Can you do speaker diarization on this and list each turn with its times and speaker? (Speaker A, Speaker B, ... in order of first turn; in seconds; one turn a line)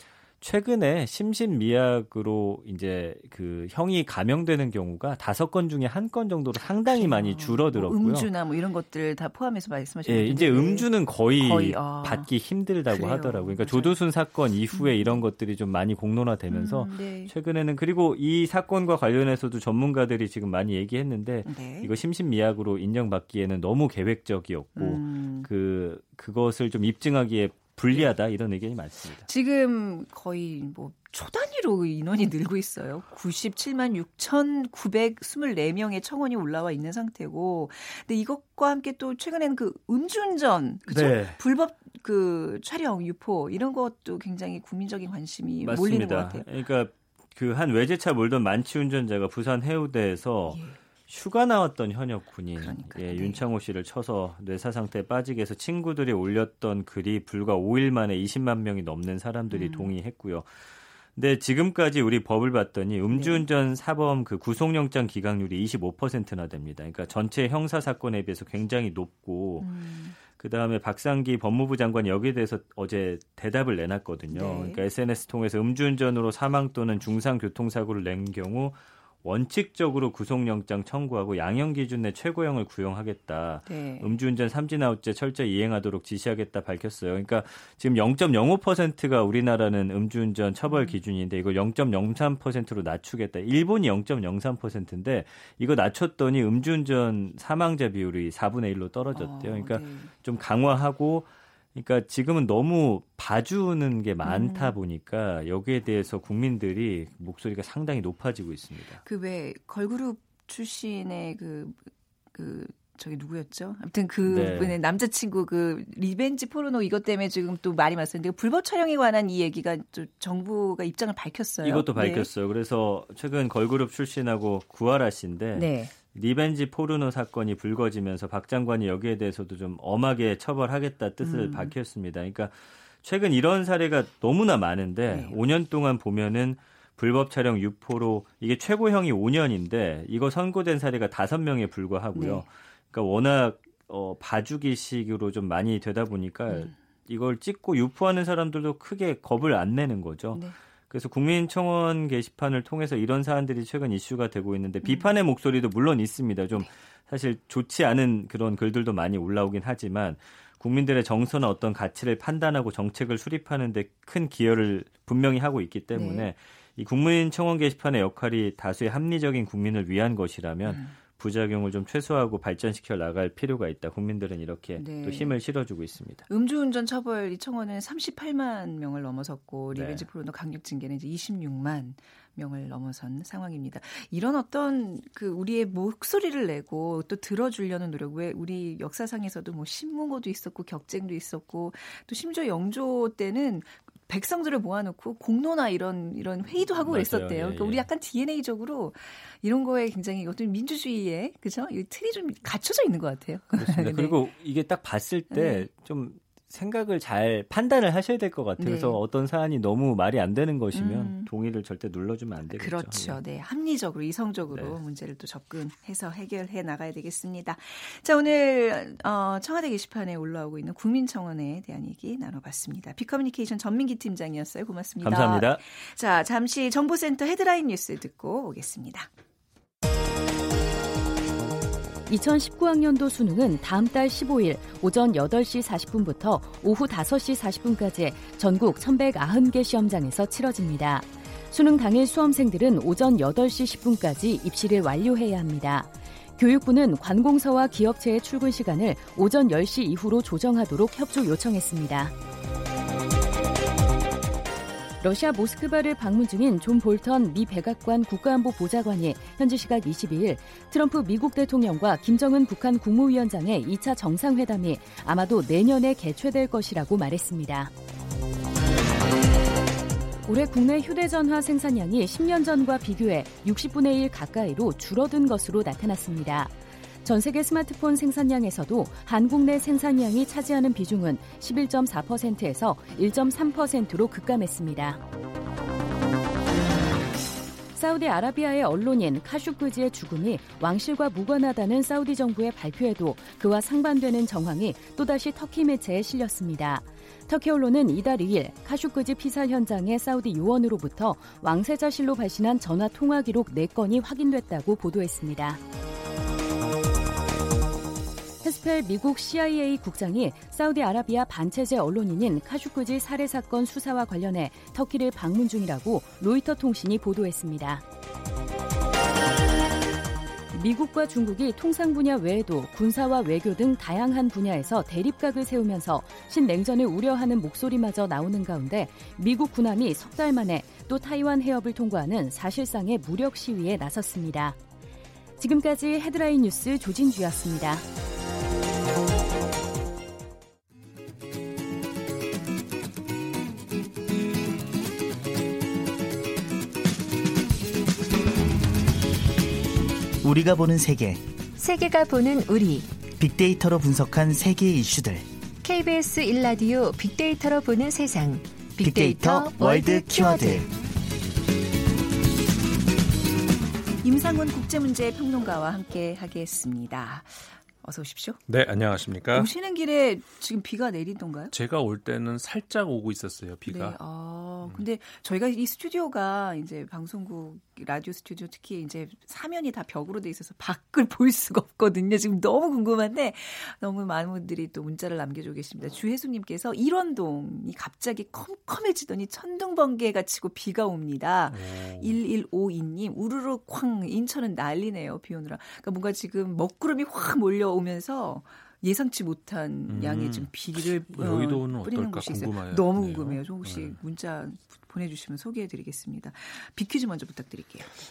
Speaker A: 0.4-8.3
Speaker B: 6.9-12.3
Speaker A: 10.1-29.2
Speaker B: 12.9-13.9
Speaker B: 14.7-15.2
Speaker B: 16.5-17.3
Speaker B: 21.4-21.9
Speaker B: 24.8-25.5
Speaker B: 29.2-46.5
Speaker A: 40.9-41.4
Speaker A: 45.6-60.5
Speaker B: 50.5-50.8
Speaker B: 52.6-53.4
Speaker B: 59.5-59.9
Speaker A: 61.1-69.7
Speaker B: 63.1-63.5
Speaker B: 69.6-70.2
Speaker A: 70.3-109.0
Speaker B: 74.3-74.8
Speaker B: 83.7-84.1
Speaker B: 90.7-91.0
Speaker B: 99.1-100.1
Speaker B: 104.2-104.8
Speaker B: 109.0-122.3
Speaker A: 114.2-114.8
Speaker A: 121.6-176.2
Speaker B: 125.5-125.9
Speaker B: 131.2-131.7
Speaker B: 135.1-135.4
Speaker B: 142.1-142.4
Speaker B: 146.5-146.7
Speaker B: 154.8-155.1
Speaker B: 165.9-166.3
Speaker B: 170.6-170.9
Speaker B: 174.8-175.3
Speaker B: 176.3-204.2
Speaker A: 179.7-180.1
Speaker A: 196.8-197.8
Speaker A: 203.6-213.2
Speaker B: 205.3-205.7
Speaker B: 208.6-209.0
Speaker B: 210.7-211.3
Speaker B: 212.5-229.1
Speaker A: 225.0-225.6
Speaker C: 232.1-252.1
Speaker C: 255.0-267.7
Speaker C: 270.2-276.5
Speaker C: 277.0-285.0
Speaker C: 287.7-305.6
Speaker C: 308.4-317.8
Speaker C: 320.5-334.6
Speaker C: 335.4-337.8
Speaker D: 350.2-351.2
Speaker E: 351.6-352.9
Speaker D: 353.1-355.3
Speaker E: 355.6-360.7
Speaker D: 358.8-360.7
Speaker B: 364.0-368.4
Speaker F: 368.5-369.5
Speaker B: 369.3-371.5
Speaker F: 371.5-374.0
Speaker B: 373.6-407.9
Speaker F: 391.5-392.2
Speaker F: 399.9-404.0